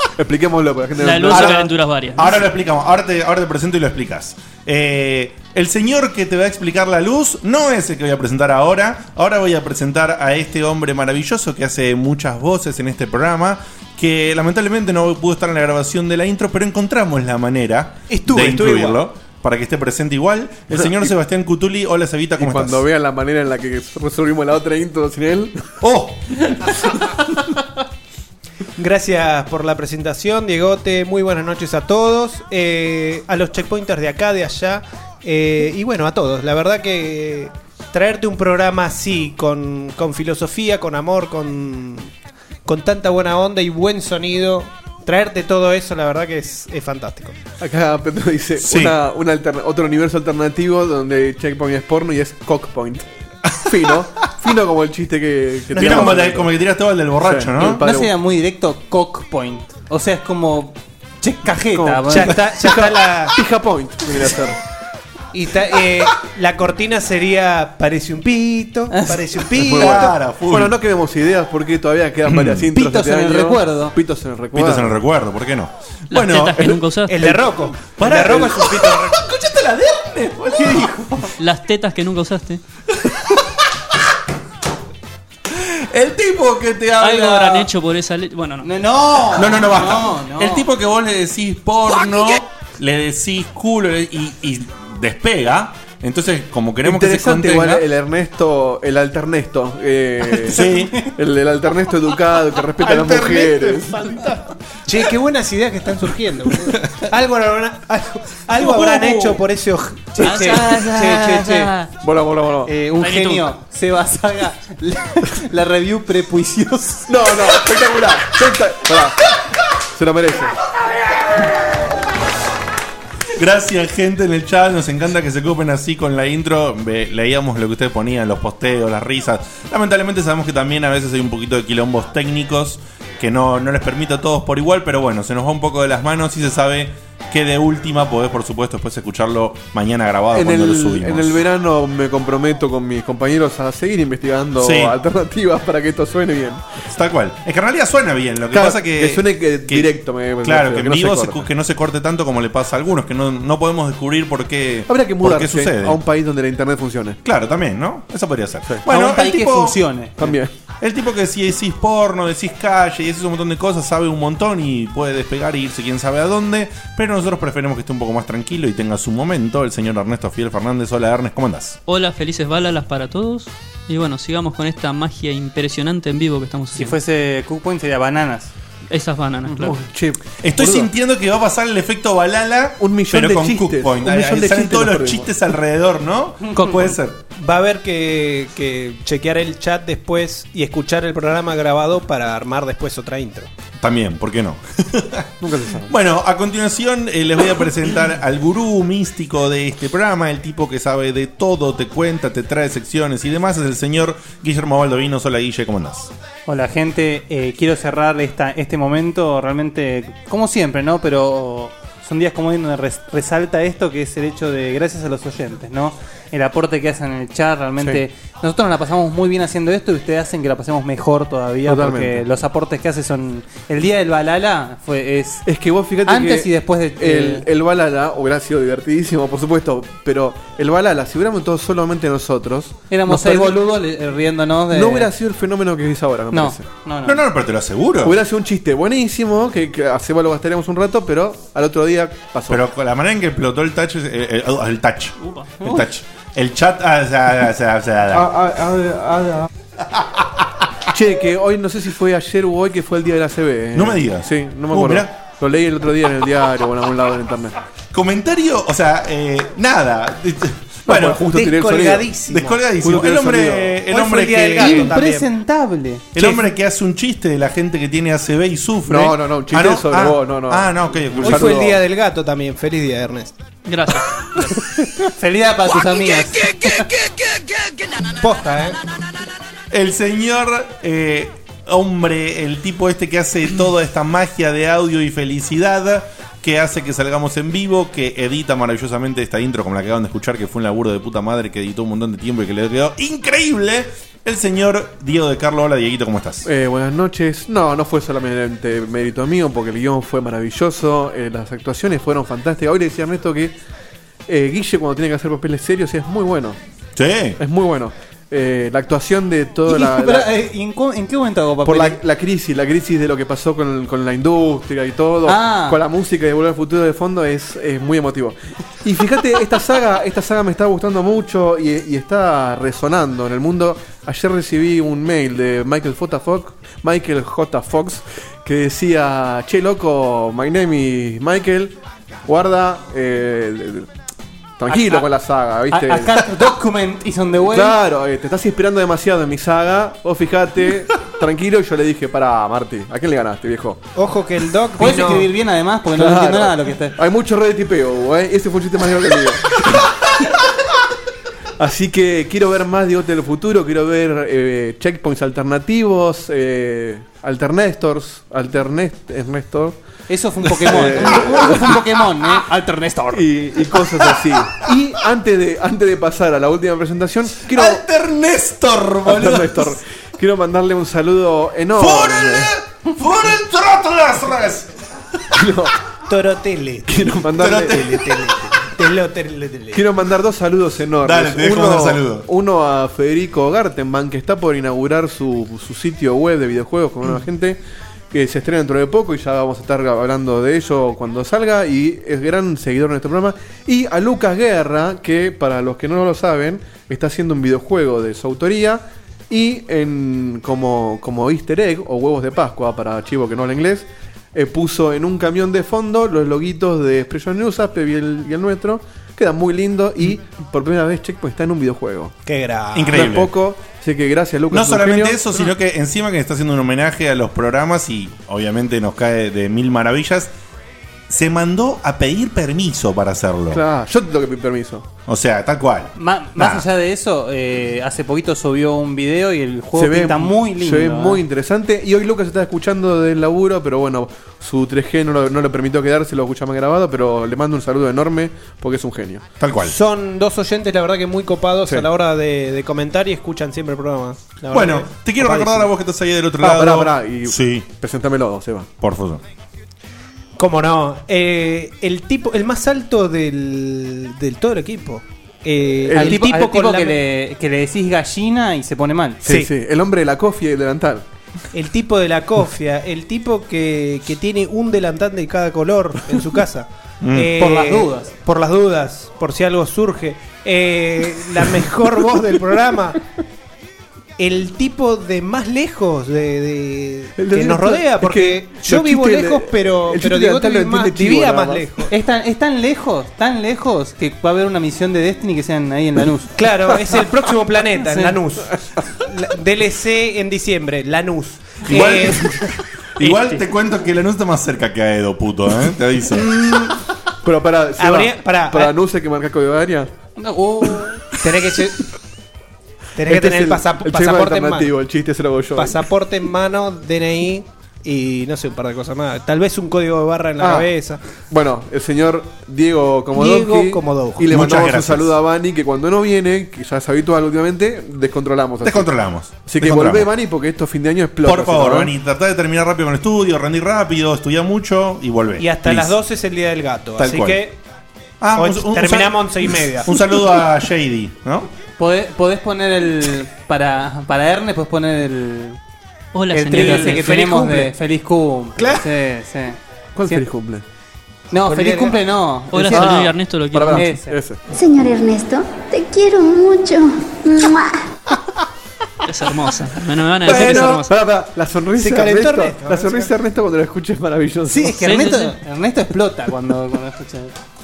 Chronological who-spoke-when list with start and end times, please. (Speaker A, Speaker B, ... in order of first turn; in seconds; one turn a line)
Speaker A: 0.2-1.6
Speaker B: 1.0-2.4
Speaker C: 1.3-22.8
Speaker D: 18.1-19.0
Speaker A: 20.7-21.1
Speaker A: 22.4-25.6
Speaker C: 25.8-26.8
Speaker D: 28.8-42.1
Speaker D: 42.6-47.4
Speaker A: 47.6-53.0
Speaker C: 48.6-49.0
Speaker A: 53.6-56.5
Speaker D: 55.7-56.3
Speaker C: 55.7-57.8
Speaker A: 57.2-58.1
Speaker E: 57.8-62.4
Speaker A: 61.7-64.6
Speaker D: 62.1-63.4
Speaker D: 65.3-70.2
Speaker E: 68.9-69.3
Speaker A: 69.6-75.0
Speaker C: 69.7-70.8
Speaker C: 72.3-72.7
Speaker E: 72.7-73.9
Speaker C: 74.5-76.7
Speaker B: 76.1-77.4
Speaker D: 77.0-79.2
Speaker C: 78.0-81.0
Speaker E: 80.5-81.3
Speaker B: 81.4-82.6
Speaker C: 85.5-87.6
Speaker B: 87.0-88.7
Speaker E: 88.6-90.7
Speaker C: 89.3-97.8
Speaker A: 96.8-100.6
Speaker C: 100.5-101.0
Speaker A: 101.1-104.1
Speaker C: 102.9-103.8
Speaker D: 103.2-104.3
Speaker D: 104.8-111.7
Speaker E: 110.2-111.8
Speaker B: 110.3-110.8
Speaker A: 112.0-112.7
Speaker E: 112.7-117.1
Speaker B: 113.0-113.5
Speaker A: 117.1-119.2
Speaker A: 119.9-120.5
Speaker C: 123.3-141.4
Speaker A: 140.3-146.6
Speaker C: 144.6-144.9
Speaker C: 146.9-156.0
Speaker A: 148.5-151.5
Speaker A: 154.9-157.2
Speaker C: 157.2-159.8
Speaker E: 158.8-160.4
Speaker A: 160.2-160.5
Speaker C: 160.8-171.8
Speaker B: 171.9-177.0
Speaker E: 176.7-178.5
Speaker B: 178.9-179.8
Speaker A: 179.5-180.9
Speaker C: 180.4-187.2
Speaker A: 182.8-185.3
Speaker D: 187.3-193.5
Speaker C: 193.8-206.1
Speaker A: 195.4-195.9
Speaker E: 206.5-225.4
Speaker A: 221.7-222.2
Speaker A: 225.4-233.6
Speaker E: 226.0-227.4
Speaker E: 232.9-235.1
Speaker A: 234.7-236.7
Speaker E: 236.3-237.2
Speaker C: 237.0-238.2
Speaker A: 238.0-242.6
Speaker C: 242.5-248.3
Speaker B: 245.2-245.5
Speaker A: 248.1-249.5
Speaker C: 249.9-250.3
Speaker A: 250.9-257.6
Speaker C: 253.7-255.1
Speaker C: 257.9-261.3
Speaker A: 260.9-262.1
Speaker D: 261.2-263.0
Speaker C: 262.3-265.0
Speaker A: 262.8-263.7
Speaker D: 263.7-265.3
Speaker E: 264.6-266.1
Speaker C: 266.1-271.7
Speaker A: 268.9-271.8
Speaker D: 271.2-273.3
Speaker B: 273.6-274.1
Speaker E: 275.1-276.9
Speaker D: 278.2-278.8
Speaker C: 279.7-296.5
Speaker A: 296.4-303.5
Speaker A: 304.3-306.6
Speaker C: 306.9-307.4
Speaker A: 307.4-310.3
Speaker E: 309.7-312.0
Speaker A: 311.6-331.8
Speaker E: 315.2-315.8
Speaker A: 332.3-333.9
Speaker A: 334.6-336.1
Speaker E: 334.7-335.1
Speaker E: 335.7-337.8
Speaker A: 337.4-343.8
Speaker D: 343.9-345.3
Speaker E: 344.8-346.9
Speaker A: 345.9-349.8
Speaker A: 351.6-359.8
Speaker E: 360.1-363.3
Speaker A: 360.5-361.7
Speaker A: 363.1-367.8
Speaker C: 367.5-369.8
Speaker A: 369.1-372.5
Speaker C: 371.8-374.7
Speaker A: 375.3-375.7
Speaker D: 376.1-379.9
Speaker A: 376.9-377.8
Speaker C: 377.4-378.4
Speaker A: 379.7-387.6
Speaker C: 381.0-382.3
Speaker A: 388.1-412.1
Speaker D: 412.2-413.1
Speaker C: 412.7-413.3
Speaker A: 412.9-415.3
Speaker C: 414.5-420.3
Speaker C: 421.1-423.6
Speaker A: 423.5-424.9
Speaker C: 425.1-426.6
Speaker E: 425.9-431.2
Speaker A: 429.7-439.2
Speaker C: 439.4-439.8
Speaker D: 439.6-445.1
Speaker C: 444.5-447.7
Speaker A: 445.2-445.6
Speaker A: 446.4-448.7
Speaker C: 448.8-449.2
Speaker D: 450.4-457.0
Speaker A: 455.8-456.2
Speaker E: 455.9-459.3
Speaker A: 459.2-461.1
Speaker D: 459.2-459.5
Speaker D: 461.5-473.0
Speaker C: 467.0-467.4
Speaker E: 467.4-468.1
Speaker D: 474.2-481.9
Speaker A: 477.1-481.7
Speaker E: 481.9-486.3
Speaker D: 486.3-492.4
Speaker E: 487.8-488.2
Speaker C: 491.7-492.2
Speaker C: 493.0-496.3
Speaker A: 497.2-499.9
Speaker D: 497.8-498.8
Speaker E: 500.2-501.0
Speaker D: 501.2-501.8
Speaker D: 502.9-504.7
Speaker A: 503.0-505.8
Speaker D: 505.5-511.0
Speaker A: 510.4-510.7
Speaker A: 511.3-518.9
Speaker D: 513.1-514.3
Speaker C: 514.3-515.1
Speaker C: 518.6-520.1
Speaker A: 519.4-521.9
Speaker C: 521.2-526.0
Speaker D: 525.4-527.6
Speaker C: 527.0-527.4
Speaker C: 528.2-531.5
Speaker D: 528.4-530.0
Speaker E: 531.8-535.6
Speaker B: 536.1-537.4
Speaker E: 536.3-540.2
Speaker D: 536.5-537.7
Speaker A: 539.9-540.6
Speaker E: 541.3-543.1
Speaker D: 541.5-542.0
Speaker B: 542.5-543.9
Speaker A: 542.7-544.4
Speaker E: 543.7-544.2
Speaker F: 544.5-547.8
Speaker B: 549.0-550.9
Speaker A: 550.2-554.8
Speaker D: 550.3-550.7
Speaker D: 551.7-553.1
Speaker E: 554.5-557.4
Speaker B: 554.8-555.3